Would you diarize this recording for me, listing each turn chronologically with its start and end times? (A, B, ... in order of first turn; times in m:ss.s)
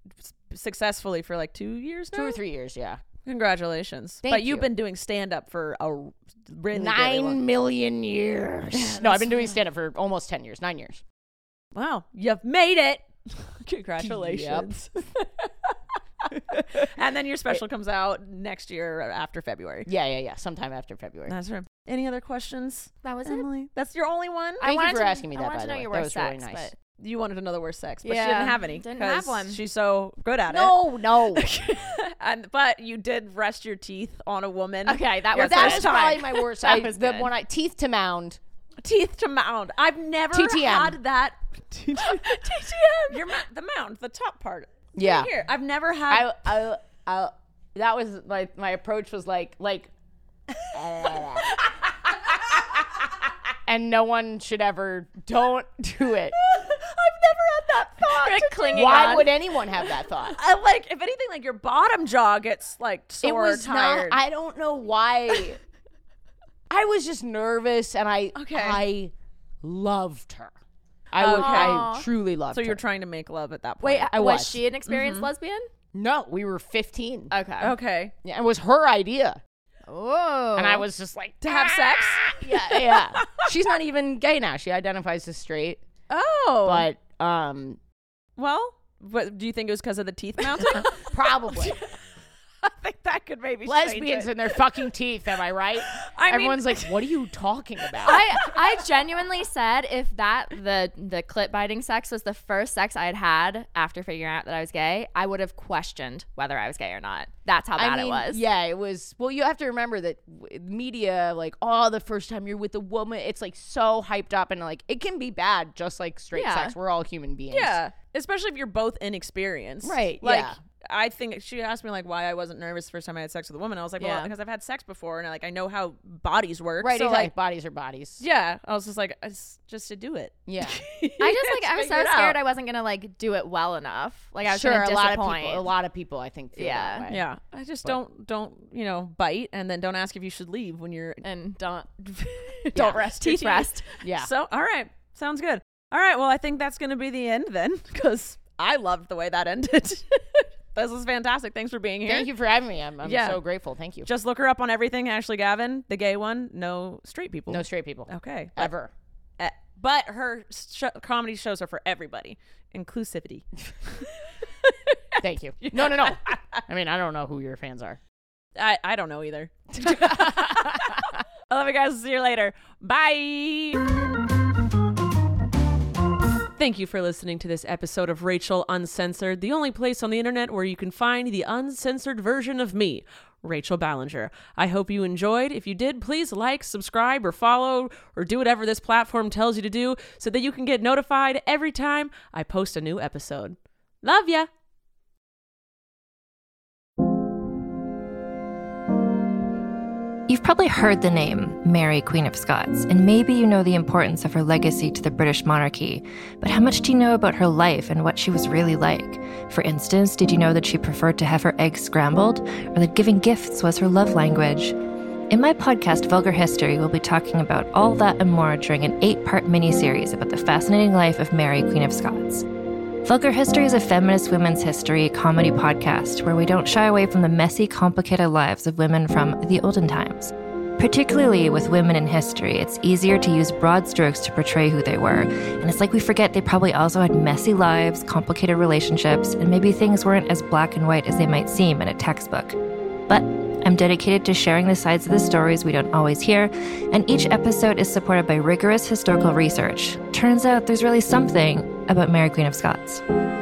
0:00.2-0:02.4 A
0:02.1-0:03.0 B
0:03.2-0:07.4 A
0:04.2-0:04.7 B
0:06.7-0:11.0 B
0:08.7-0:09.6 A
0:11.7-0:19.9 A
0:14.0-0:14.7 B
0:19.9-0:21.4 B
0:21.3-0:24.7 A
0:23.0-0:23.5 C
0:24.6-0:26.7 B
0:24.6-0:26.7 C
0:27.0-0:36.4 A
0:28.0-0:29.6 C
0:30.5-0:31.5 B
0:34.9-0:37.3 C
0:35.3-0:38.4 B
0:38.8-0:46.5 A
0:40.3-0:41.0 B
0:42.3-0:43.1 C
0:45.0-0:45.3 B
0:46.1-0:49.9 B
0:50.7-0:51.7 B
0:52.5-0:52.8 B
0:53.7-0:56.4 B
0:56.4-0:59.2 A
0:58.1-0:59.3 C
0:58.7-1:00.4 B
1:00.2-1:04.2 A
1:03.2-1:05.6 B
1:06.7-1:10.5 B
1:08.4-1:08.8 A
1:11.1-1:12.8 B
1:11.2-1:11.9 A
1:11.4-1:12.1 C
1:12.5-1:14.1 A
1:13.8-1:14.6 B
1:13.8-1:15.7 C
1:14.9-1:15.3 A
1:15.9-1:17.3 B
1:17.3-1:17.7 C
1:17.6-1:18.1 A
1:18.2-1:19.4 B
1:19.9-1:20.9 C
1:20.6-1:25.8 B
1:21.4-1:23.5 A
1:26.1-1:26.9 A
1:26.6-1:27.8 B
1:28.4-1:31.9 A
1:30.5-1:31.8 B
1:32.6-1:34.8 A
1:33.6-1:38.2 B
1:35.9-1:37.2 A
1:37.8-1:38.8 A
1:38.0-1:48.4 C
1:47.8-1:57.8 B
1:56.3-1:56.8 C
1:57.5-2:07.3 A
1:59.8-2:00.6 B
2:04.0-2:04.3 C
2:06.8-2:08.2 B
2:08.2-2:12.4 A
2:10.5-2:10.8 B
2:11.2-2:15.7 C
2:14.4-2:17.3 B
2:16.6-2:17.1 C
2:17.1-2:21.2 A
2:21.2-2:21.9 C
2:22.0-2:32.3 A
2:22.8-2:23.1 B
2:22.8-2:23.9 C
2:24.0-2:24.3 B
2:32.0-2:34.1 B
2:33.0-2:33.4 A
2:34.0-2:38.7 A
2:37.5-2:38.9 B
2:39.4-2:44.1 A
2:44.6-2:45.0 A
2:45.2-2:48.0 B
2:45.6-2:46.6 A
2:48.6-2:53.9 A
2:49.8-2:50.8 B
2:56.6-3:14.5 D
3:20.3-3:34.8 E
3:35.3-3:42.4 E
3:43.0-4:02.6 E
4:03.1-4:13.0 E